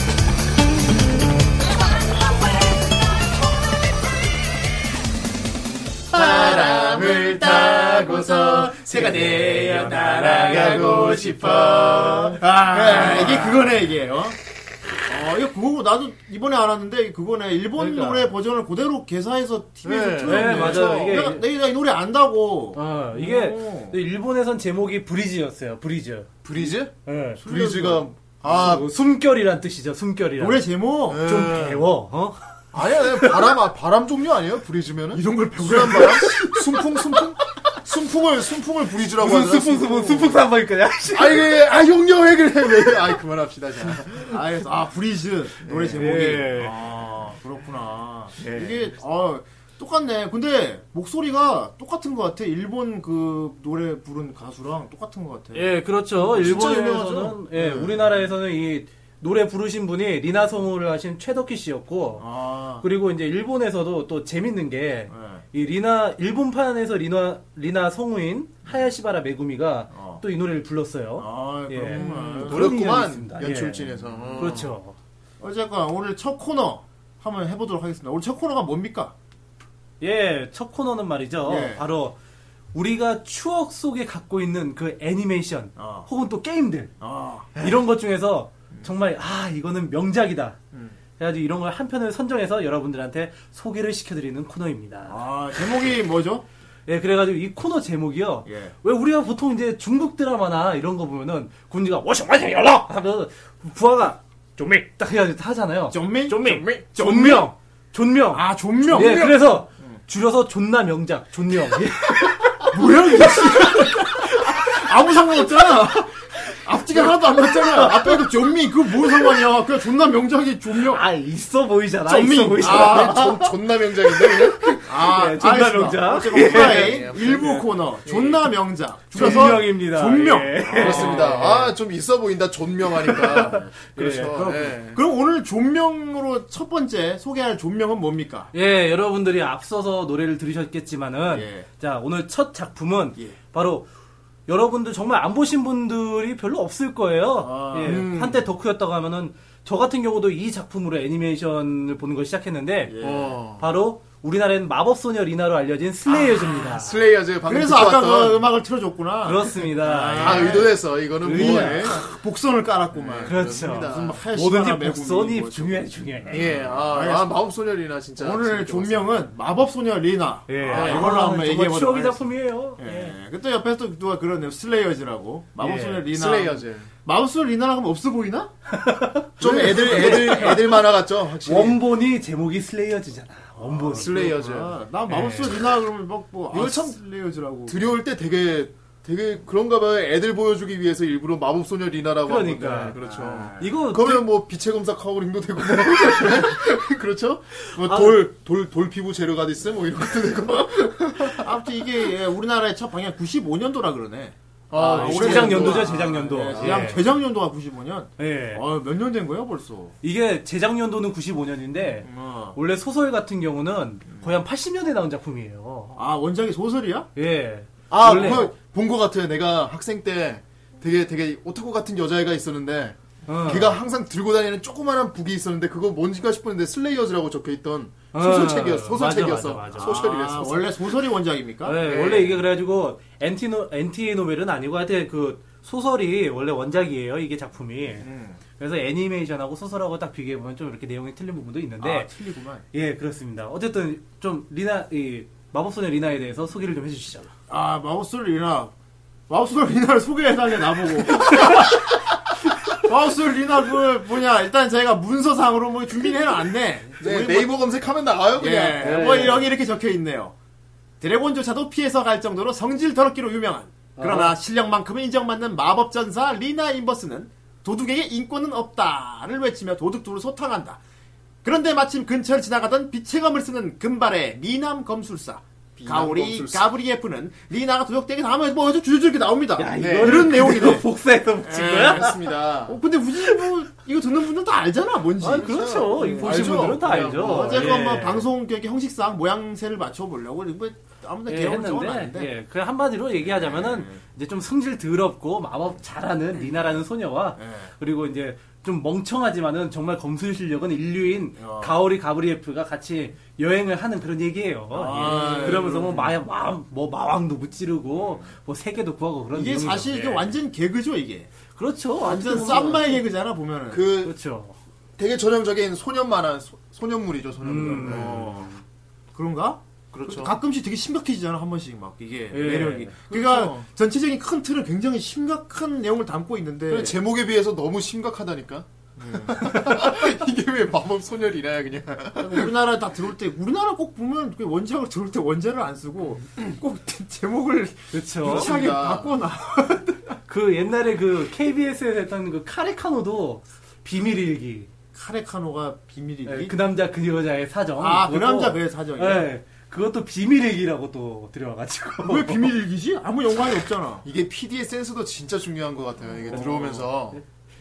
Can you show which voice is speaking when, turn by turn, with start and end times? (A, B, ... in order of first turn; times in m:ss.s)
0:06.1-0:13.6 A
0:06.1-0:14.4 B
0:09.2-0:13.5 C
0:15.0-0:24.0 B
0:17.8-0:18.3 C
0:19.8-0:21.3 A
0:20.2-0:21.4 C
0:22.7-0:26.3 C
0:26.4-0:26.9 A
0:27.0-0:27.4 C
0:27.4-0:28.1 B
0:27.4-0:28.8 A
0:28.4-0:30.6 C
0:30.4-0:31.5 B
0:31.1-0:31.8 A
0:31.2-0:32.4 C
0:32.7-0:37.4 A
0:33.1-0:33.5 C
0:35.1-0:37.1 B
0:37.8-0:39.1 B
0:38.3-0:40.1 A
0:39.2-0:41.5 C
0:39.7-0:40.4 B
0:41.1-0:44.4 A
0:44.2-0:55.7 B
0:45.6-0:46.1 A
0:45.9-0:46.8 C
0:48.4-0:48.9 A
0:55.5-1:02.2 C
0:56.3-0:57.8 B
1:02.2-1:02.8 B
1:02.8-1:13.8 C
1:05.1-1:05.4 B
1:09.9-1:10.2 B
1:11.2-1:12.7 B
1:11.9-1:14.7 A
1:14.1-1:14.5 B
1:14.4-1:14.9 C
1:15.4-1:19.1 B
1:20.0-1:22.2 C
1:21.4-1:21.8 B
1:22.7-1:26.9 C
1:25.8-1:26.1 B
1:27.0-1:27.5 B
1:27.5-1:30.6 C
1:30.7-1:31.0 B
1:31.2-1:35.2 C
1:35.1-1:36.4 B
1:36.9-1:54.7 C
1:38.4-1:38.7 B
1:45.9-1:47.5 B
1:48.3-1:50.0 B
1:52.7-2:01.0 B
1:57.5-1:58.3 C
2:00.8-2:03.5 C
2:02.0-2:03.5 B
2:02.6-2:04.8 A
2:04.1-2:07.6 C
2:04.8-2:11.5 B
2:06.4-2:08.3 A
2:09.1-2:11.7 C
2:09.2-2:09.6 A
2:10.7-2:15.0 A
2:13.0-2:14.4 C
2:14.2-2:18.5 B
2:18.5-2:23.9 C
2:21.3-2:21.7 B
2:24.5-2:33.0 C
2:27.4-2:28.4 B
2:27.8-2:28.2 A
2:32.8-2:33.4 B
2:33.0-2:33.6 A
2:33.6-2:37.0 C
2:36.6-2:38.4 A
2:37.4-2:47.4 B
2:39.2-2:42.0 C
2:40.2-2:42.0 A
2:42.9-2:44.2 A
2:43.2-2:46.5 C
2:46.3-2:49.2 A
2:48.2-2:58.5 B
2:50.5-2:53.1 C
2:50.7-2:51.1 A
2:55.6-2:56.0 C
2:56.1-2:56.9 A
2:58.7-3:00.8 C
2:59.4-3:00.8 B
2:59.4-3:01.8 A
3:01.4-3:04.2 C
3:03.7-3:07.9 B
3:03.8-3:04.7 A
3:05.1-3:05.5 C
3:06.5-3:07.0 A
3:07.7-3:21.5 A
3:12.2-3:13.0 C
3:13.0-3:13.7 B
3:13.6-3:14.3 C
3:17.7-3:18.2 C
3:21.3-3:29.9 B
3:24.7-3:27.0 A
3:24.8-3:27.0 C
3:28.2-3:28.6 C
3:30.0-3:36.0 C
3:32.0-3:32.6 B
3:36.0-3:37.1 B
3:37.2-3:38.5 C
3:37.9-3:50.8 A
3:43.2-3:43.8 C
3:48.1-3:50.0 C
3:49.7-3:51.8 B
3:51.6-4:02.1 C
3:51.8-3:52.4 A
3:58.0-3:58.4 B
4:01.8-4:02.6 B
4:02.7-4:07.3 C
4:07.5-4:08.7 B
4:09.3-4:17.5 B
4:17.0-4:19.1 A
4:18.3-4:20.3 B
4:18.8-4:19.5 C
4:21.0-4:30.8 B
4:24.0-4:24.4 C
4:31.4-4:40.9 B
4:35.8-4:36.7 A
4:39.6-4:42.2 C
4:39.8-4:40.8 A
4:41.5-4:42.8 A
4:41.5-4:52.3 B
4:45.2-4:48.2 C
4:45.3-4:47.8 A
4:51.3-5:10.3 C
4:53.2-4:54.0 B
4:57.4-4:57.7 B
5:01.4-5:01.7 B
5:04.7-5:06.1 B
5:05.1-5:06.0 A
5:09.3-5:11.3 B
5:11.5-5:13.0 C
5:12.0-5:13.9 B
5:13.7-5:14.1 A
5:14.0-5:14.6 C
5:15.0-5:18.4 A
5:17.4-5:18.6 C
5:17.6-5:18.5 B
5:19.1-5:27.0 B
5:19.9-5:20.3 A
5:22.3-5:23.0 C
5:23.1-5:23.6 A
5:26.7-5:32.5 A
5:29.0-5:29.7 B
5:32.2-5:40.2 B
5:37.9-5:38.5 C
5:38.2-5:39.1 A
5:40.3-5:44.7 C
5:44.9-5:46.5 B
5:46.2-5:52.5 C
5:47.8-5:49.3 B
5:52.0-5:54.0 B
5:54.0-5:57.2 A
5:56.3-5:56.8 B
5:56.3-5:57.2 C